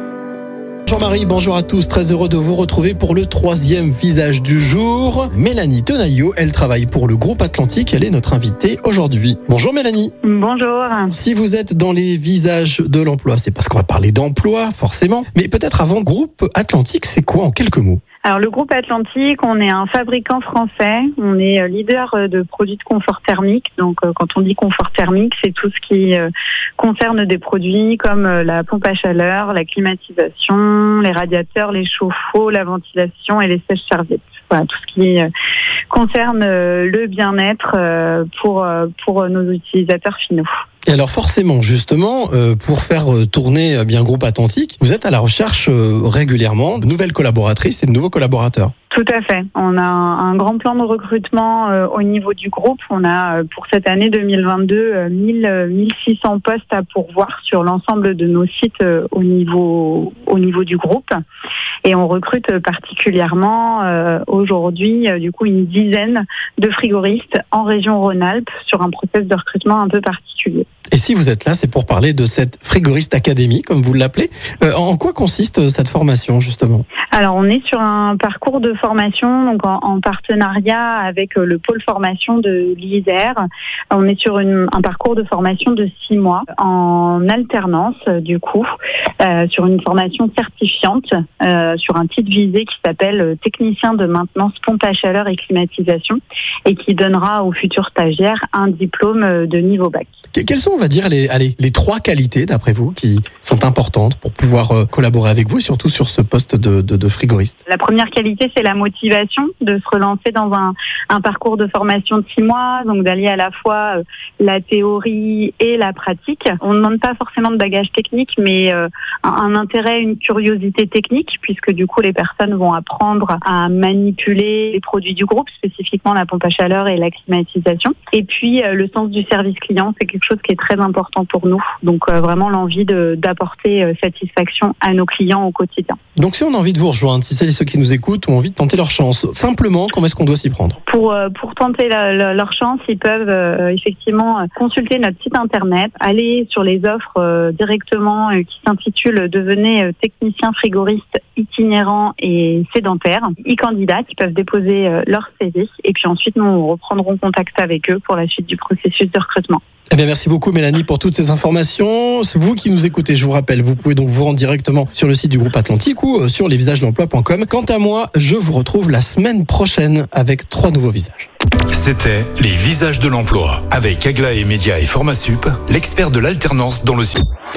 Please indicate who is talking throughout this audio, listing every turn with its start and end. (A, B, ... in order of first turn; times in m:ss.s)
0:00.9-0:10.1 A
0:10.2-0:11.1 B
0:11.1-0:18.0 A
0:18.2-0:26.3 B
0:26.8-0:35.3 B
0:35.9-0:40.5 B
0:40.9-0:48.7 A
0:48.9-1:01.1 B
1:01.8-1:10.7 B
1:10.9-1:16.9 A
1:17.1-1:28.7 B
1:29.2-1:40.1 B
1:40.3-1:47.6 A
1:47.7-2:16.0 B
2:16.2-2:20.8 A
2:20.9-2:39.6 B
2:39.9-2:51.3 A
2:51.7-2:57.2 C